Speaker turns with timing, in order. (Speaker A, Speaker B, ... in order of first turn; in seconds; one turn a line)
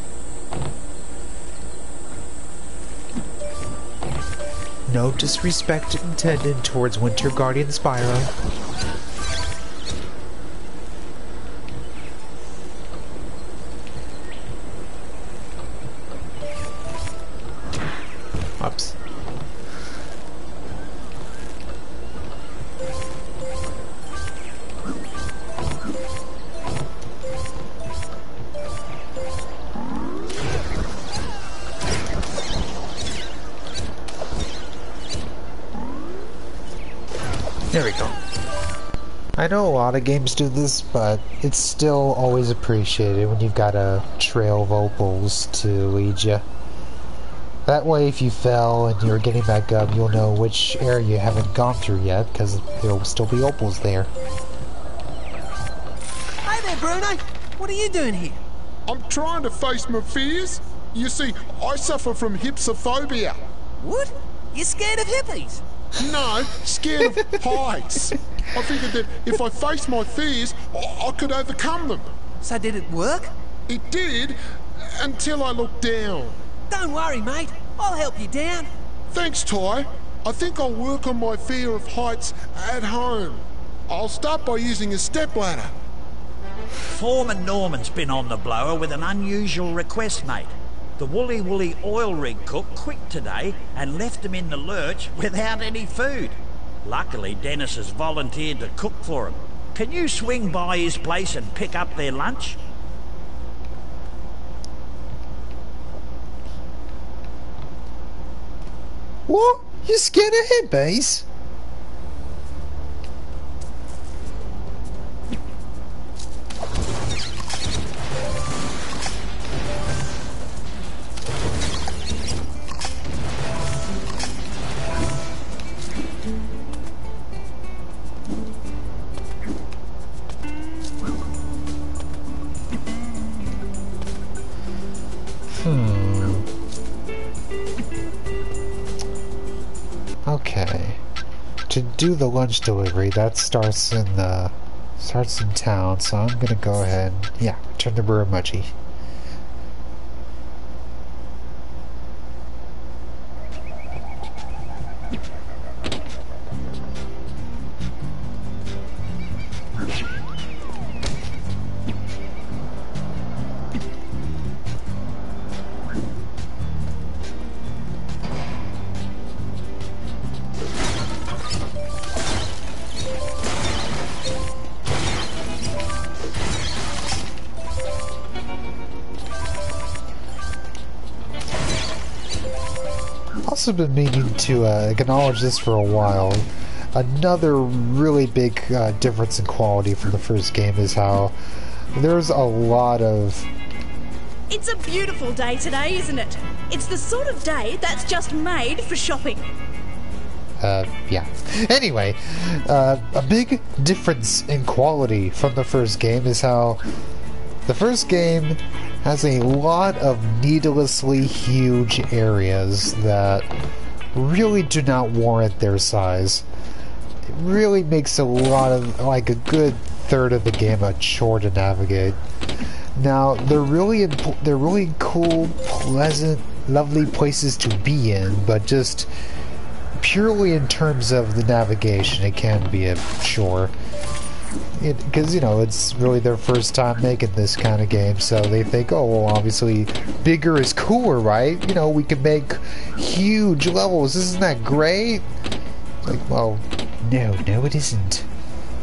Speaker A: 4.9-8.3
Speaker A: 18.6-19.0
Speaker A: 37.7-38.2
Speaker A: 39.4-46.5
Speaker A: 47.6-54.1
Speaker B: 56.5-58.4
Speaker C: 58.9-63.4
Speaker B: 63.8-65.6
Speaker C: 65.9-72.1
Speaker B: 72.4-73.3
Speaker C: 73.7-74.4
Speaker C: 74.9-76.4
Speaker B: 76.7-78.7
Speaker C: 79.1-85.7
Speaker D: 86.9-102.6
Speaker A: 109.3-111.2
Speaker A: 135.5-136.5
Speaker A: 140.2-141.0
Speaker A: 141.7-148.7
Speaker A: 183.4-191.4
Speaker A: 191.9-193.5
Speaker E: 194.5-199.5
Speaker A: 200.6-206.8
Speaker A: 207.7-213.5
Speaker A: 214.1-216.4
Speaker A: 217.2-222.2
Speaker A: 222.9-229.1
Speaker A: 230.0-233.7
Speaker A: 234.8-245.3
Speaker A: 246.0-248.3